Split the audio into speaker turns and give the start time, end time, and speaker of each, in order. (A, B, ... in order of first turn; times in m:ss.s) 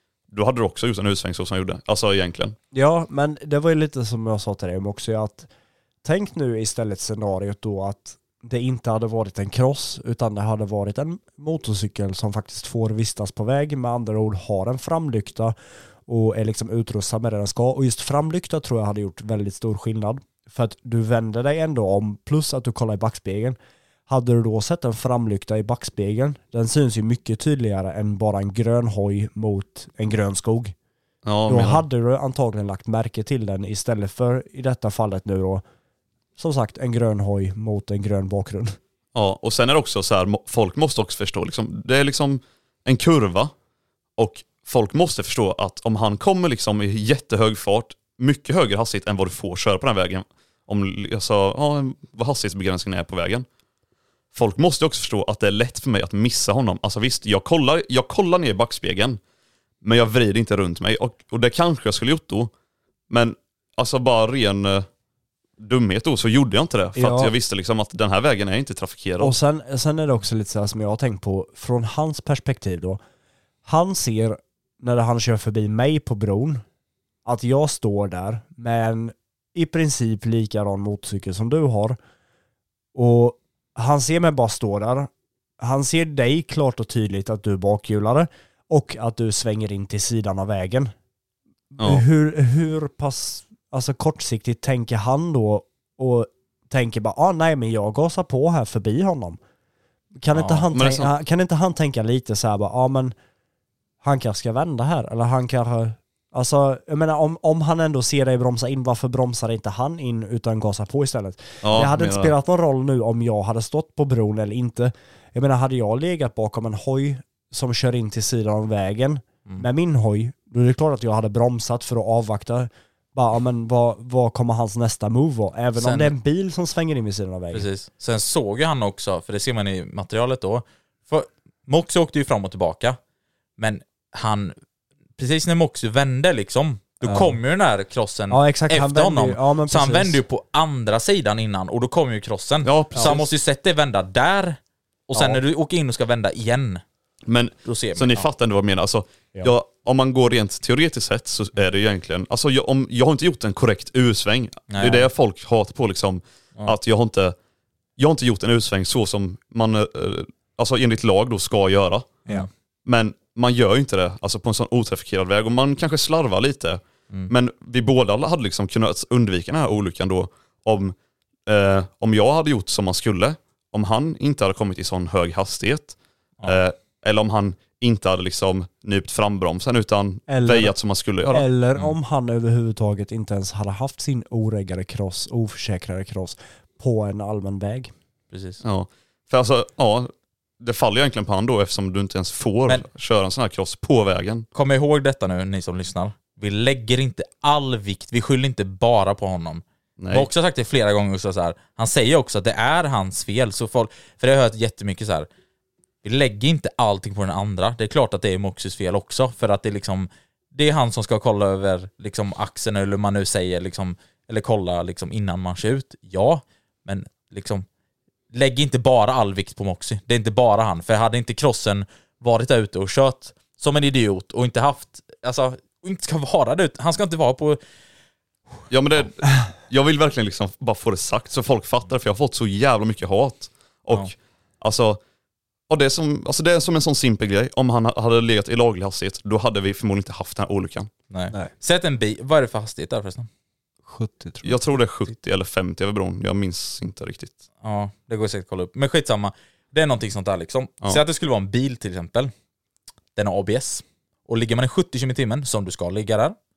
0:00.3-0:02.6 A
0:02.7-0:05.5 B
0:06.0-0:15.5 B
0:16.1-0:30.7 B
0:31.2-0:31.8 A
0:31.5-0:35.6 B
0:36.4-0:38.8 B
0:39.1-0:43.5 A
0:44.2-0:53.4 A
0:54.3-0:59.2 A
0:59.8-1:02.5 A
1:03.1-1:04.9 A
1:05.6-1:09.3 A
1:07.0-1:07.3 B
1:09.2-1:13.0 B
1:13.6-1:16.6 B
1:17.2-1:22.0 B
1:22.9-1:30.9 B
1:31.7-1:39.4 B
1:31.8-1:32.0 A
1:40.2-1:43.1 B
1:40.3-1:40.6 C
1:40.7-1:41.1 A
1:44.0-2:07.7 B
1:51.6-1:52.3 A
2:05.8-2:06.1 C
2:07.5-2:13.0 C
2:13.6-2:14.5 C
2:15.2-2:24.6 C
2:17.0-2:17.4 B
2:18.3-2:20.2 B
2:22.6-2:23.3 A
2:22.9-2:23.2 B
2:25.1-2:26.8 C
2:25.1-2:25.4 B
2:27.3-2:37.4 A
2:27.6-2:28.3 C
2:34.7-2:35.1 C
2:38.0-2:42.1 A
2:42.8-2:50.9 A
2:51.5-3:01.5 A
3:00.3-3:00.7 B
3:01.3-3:07.9 B
3:08.3-3:08.6 C
3:08.6-3:14.4 A
3:14.5-3:25.3 C
3:20.0-3:20.3 A
3:26.0-3:37.6 C
3:38.3-3:47.6 C
3:48.7-3:55.0 A
3:55.7-4:00.9 A
4:01.1-4:03.3 C
4:03.8-4:04.5 B
4:04.4-4:07.4 A
4:07.6-4:12.3 C
4:13.1-4:16.4 C